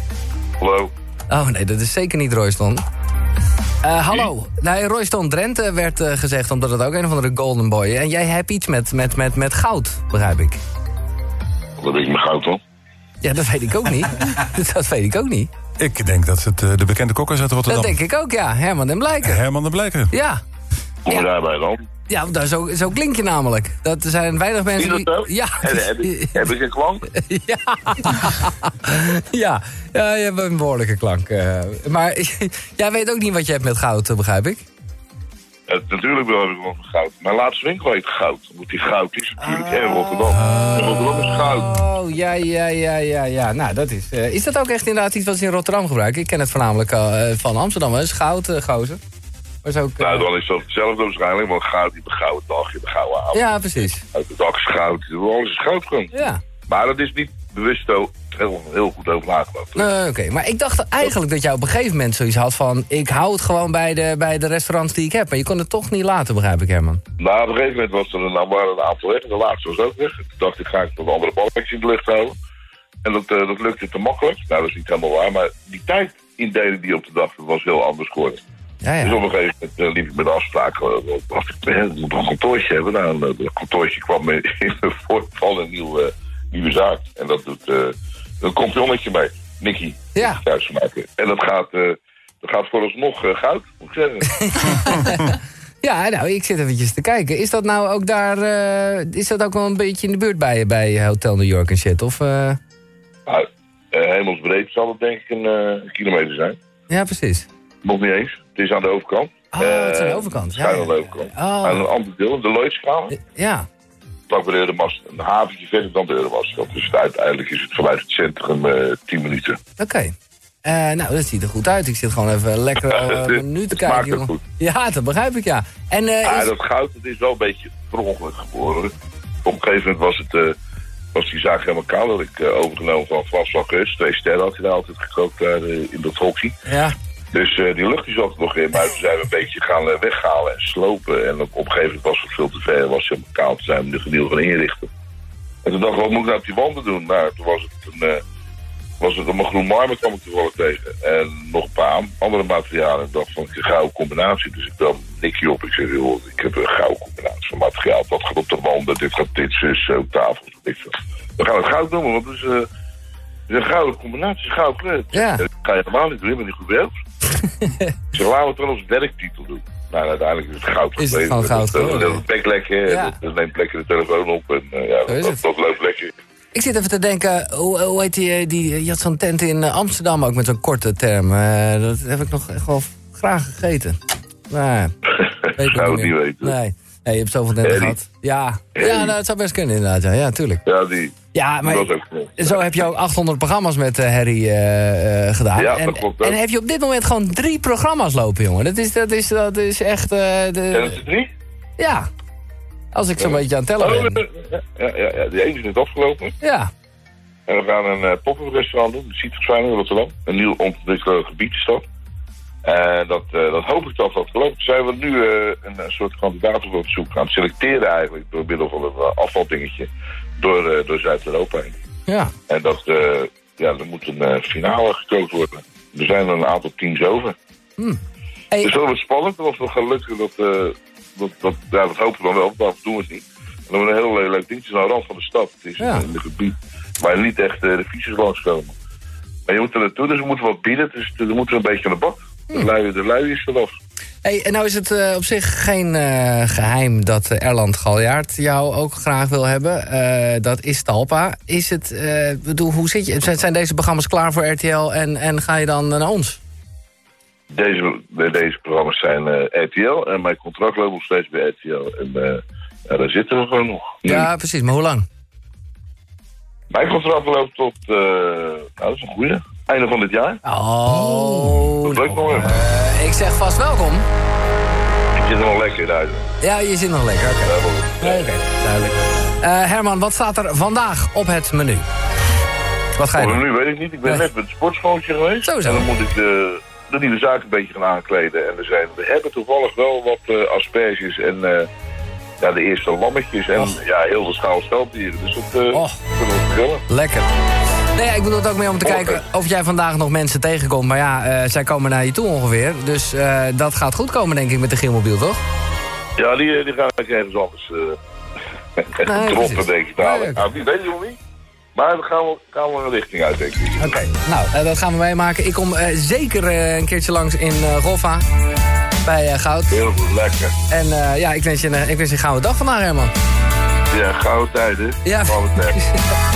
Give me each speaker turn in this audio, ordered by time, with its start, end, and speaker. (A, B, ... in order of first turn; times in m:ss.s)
0:00.6-0:00.9 A
0:01.3-0:02.8 B
0:03.8-0:10.6 B
0:11.8-0:12.6 A
0:13.2-0:15.5 B
0:15.8-0:18.0 C
0:17.7-0:19.4 B
0:19.2-0:20.1 C
0:20.1-0:20.4 B
0:21.0-0:21.8 A
0:22.1-0:26.5 B
0:24.8-0:27.0 A
0:27.1-0:34.6 B
0:35.7-0:41.7 A
0:39.4-0:49.0 B
0:49.6-0:50.3 B
0:50.0-0:56.1 A
0:53.3-0:54.0 B
0:56.1-0:56.4 B
0:56.7-0:59.9 A
0:59.8-1:07.0 B
1:07.2-1:12.3 A
1:13.0-1:18.4 A
1:18.8-1:19.2 B
1:19.0-1:34.8 A
1:30.1-1:30.4 B
1:34.4-1:42.6 B
1:43.3-1:46.6 A
1:46.9-1:47.5 B
1:47.8-1:53.2 A
1:49.5-1:51.8 B
1:53.1-1:53.6 B
1:54.3-1:59.6 A
1:59.8-2:06.5 B
2:02.9-2:04.4 A
2:06.2-2:08.9 A
2:09.4-2:10.6 A
2:11.1-2:16.6 A
2:16.6-2:16.9 B
2:17.3-2:24.9 A
2:25.6-2:28.2 A
2:29.0-2:42.6 A
2:43.5-2:46.9 A
2:45.1-2:45.4 B
2:47.4-2:47.9 B
2:48.1-2:56.1 A
2:51.0-2:52.2 B
2:52.9-2:53.1 B
2:55.1-2:55.4 B
2:56.5-3:04.0 B
3:04.5-3:04.9 B
3:05.2-3:06.6 A
3:05.6-3:10.6 B
3:07.6-3:08.0 A
3:08.8-3:09.1 A
3:10.6-3:12.8 A
3:11.3-3:21.0 B
3:15.6-3:16.4 A
3:20.7-3:21.3 A
3:21.8-3:22.1 B
3:22.9-3:24.2 B
3:23.2-3:26.4 A
3:26.4-3:26.7 B
3:27.5-3:31.8 A
3:32.6-3:39.9 A
3:40.4-3:41.7 A
3:42.1-3:42.3 B
3:42.5-3:47.4 A
3:47.8-3:48.7 B
3:48.6-3:58.7 A
3:55.8-3:56.1 B
3:59.5-4:03.8 A
4:04.2-4:16.4 B
4:17.5-4:24.3 A
4:24.0-4:25.0 B
4:26.7-4:30.4 A
4:30.4-4:34.0 B
4:31.8-4:32.6 A
4:35.2-4:36.3 A
4:36.4-4:41.8 B
4:37.4-4:38.3 A
4:43.0-4:43.4 B
4:43.2-4:51.7 A
4:45.4-4:45.9 B
4:52.4-4:56.8 A
4:55.7-4:56.0 B
4:56.9-4:57.3 B
4:57.9-5:05.4 B
4:58.8-4:59.2 A
5:06.2-5:08.0 A
5:08.8-5:11.2 A
5:09.0-5:10.4 B
5:11.8-5:14.0 A
5:13.8-5:18.2 B
5:19.0-5:19.8 B
5:19.7-5:20.5 A
5:20.7-5:23.1 B
5:23.9-5:25.8 A
5:25.0-5:26.0 B